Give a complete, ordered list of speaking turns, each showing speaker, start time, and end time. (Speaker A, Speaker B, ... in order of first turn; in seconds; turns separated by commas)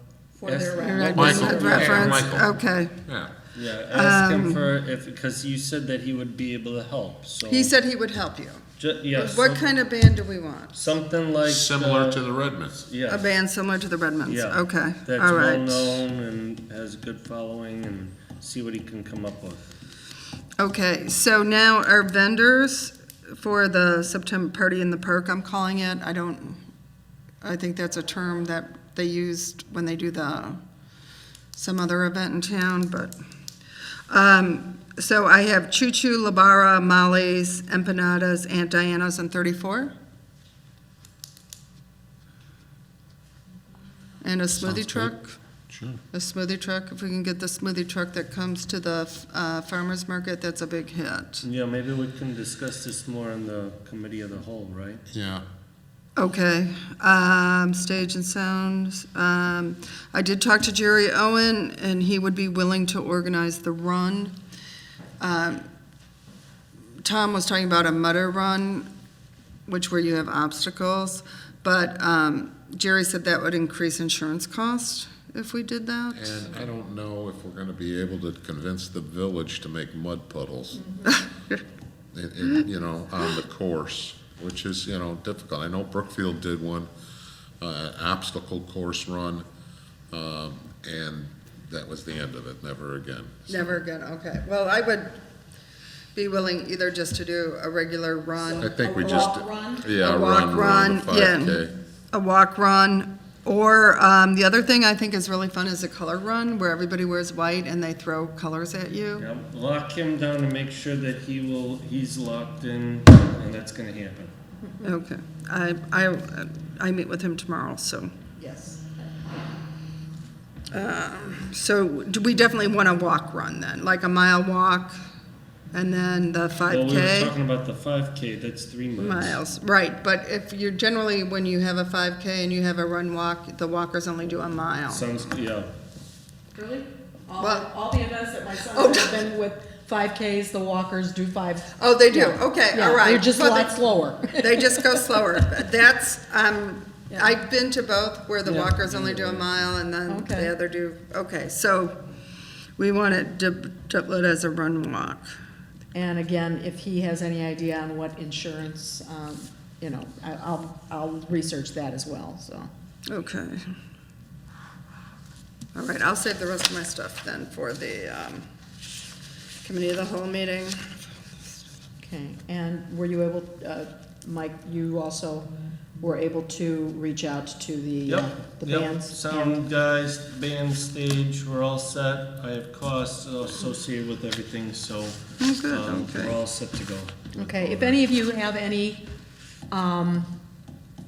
Speaker A: 0.4-2.2, Speaker B: 0.4-2.3, Speaker C: 0.8-3.0, Speaker D: 1.1-3.3, Speaker B: 3.5-7.7, Speaker C: 3.9-4.6, Speaker C: 7.5-10.8, Speaker B: 8.8-9.6, Speaker B: 10.7-13.3, Speaker D: 11.4-12.8, Speaker C: 13.1-16.0, Speaker B: 14.2-19.7, Speaker C: 20.6-26.6, Speaker C: 27.4-30.6, Speaker C: 31.5-33.1, Speaker C: 34.1-39.9, Speaker C: 44.2-45.4, Speaker D: 44.5-45.1, Speaker D: 45.7-46.0, Speaker C: 46.1-51.5, Speaker B: 51.4-55.0, Speaker D: 55.1-55.4, Speaker C: 56.2-64.3, Speaker C: 65.2-65.6, Speaker C: 67.0-68.9, Speaker C: 69.7-76.5, Speaker D: 76.1-80.8, Speaker C: 81.1-81.6, Speaker D: 82.1-86.9, Speaker D: 87.6-89.4, Speaker D: 90.1-93.8, Speaker C: 93.5-95.2, Speaker C: 96.1-99.3, Speaker D: 98.6-101.7, Speaker A: 98.6-99.9, Speaker C: 99.9-101.6, Speaker C: 102.1-109.2, Speaker B: 109.2-114.3, Speaker A: 114.6-114.9, Speaker C: 114.8-118.1, Speaker A: 118.4-119.4, Speaker C: 120.7-125.0, Speaker C: 125.7-127.3, Speaker B: 126.7-129.4, Speaker C: 128.9-135.1, Speaker B: 134.9-135.7, Speaker A: 136.5-145.3, Speaker C: 137.4-137.7, Speaker C: 138.7-139.2, Speaker C: 141.8-152.0, Speaker B: 148.4-149.6, Speaker A: 150.1-150.5, Speaker C: 152.8-155.3, Speaker A: 155.9-162.7, Speaker C: 163.1-163.7, Speaker C: 165.7-168.4, Speaker C: 169.6-171.0, Speaker A: 172.0-179.6, Speaker B: 178.1-187.9, Speaker C: 185.4-186.4, Speaker A: 187.3-189.1, Speaker A: 189.7-190.3